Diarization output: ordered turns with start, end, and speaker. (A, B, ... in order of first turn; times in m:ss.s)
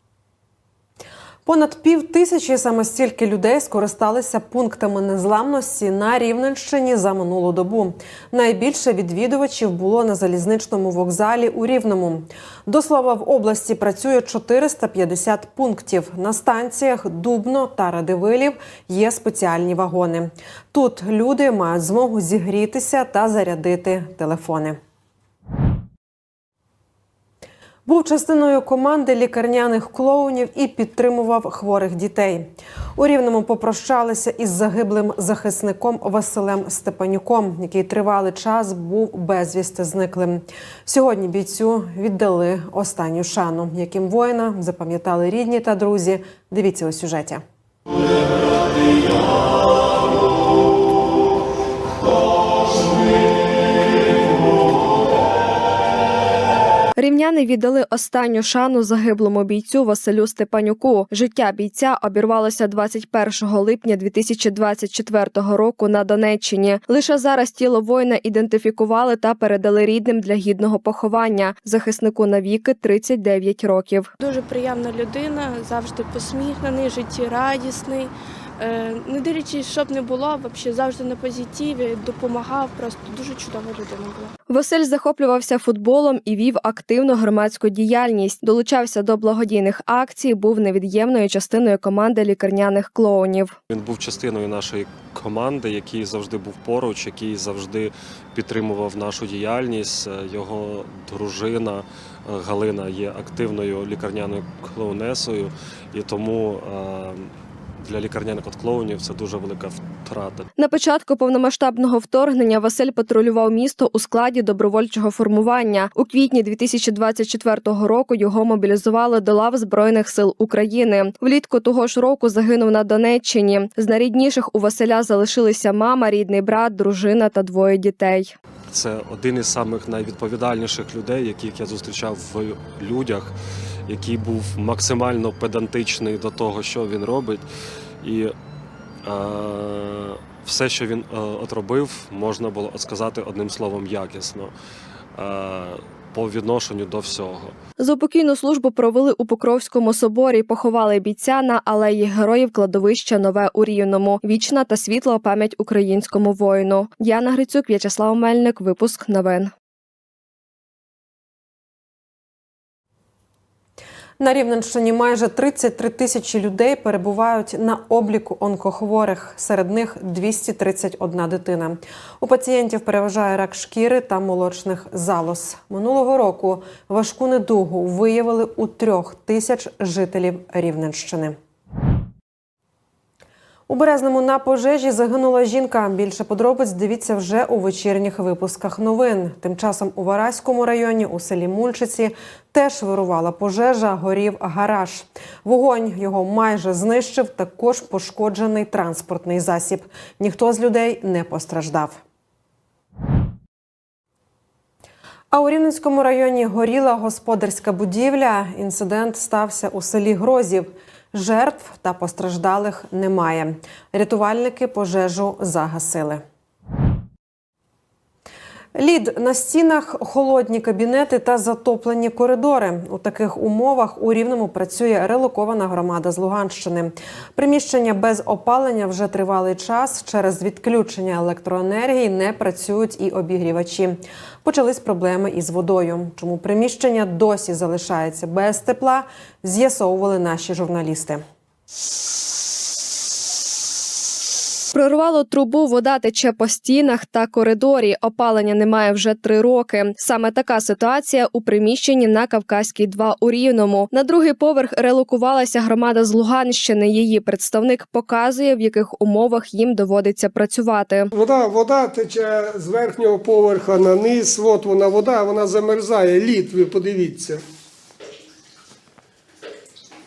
0:01.4-0:24.8 A
0:27.8-0:47.4 A
0:57.0-1:14.1 B
1:14.2-1:24.3 C
1:24.5-1:33.5 B
1:33.7-1:50.5 D
1:50.6-2:08.3 B
2:08.7-2:13.3 D
2:13.9-2:17.4 D
2:18.0-2:18.3 D
2:19.0-2:24.5 D
2:25.2-2:27.5 D
2:27.8-2:39.5 B
2:44.2-3:01.4 A
3:03.7-3:22.0 A
3:25.3-3:36.2 A
3:38.7-4:01.2 A
4:04.7-4:21.1 B
4:21.1-4:27.4 E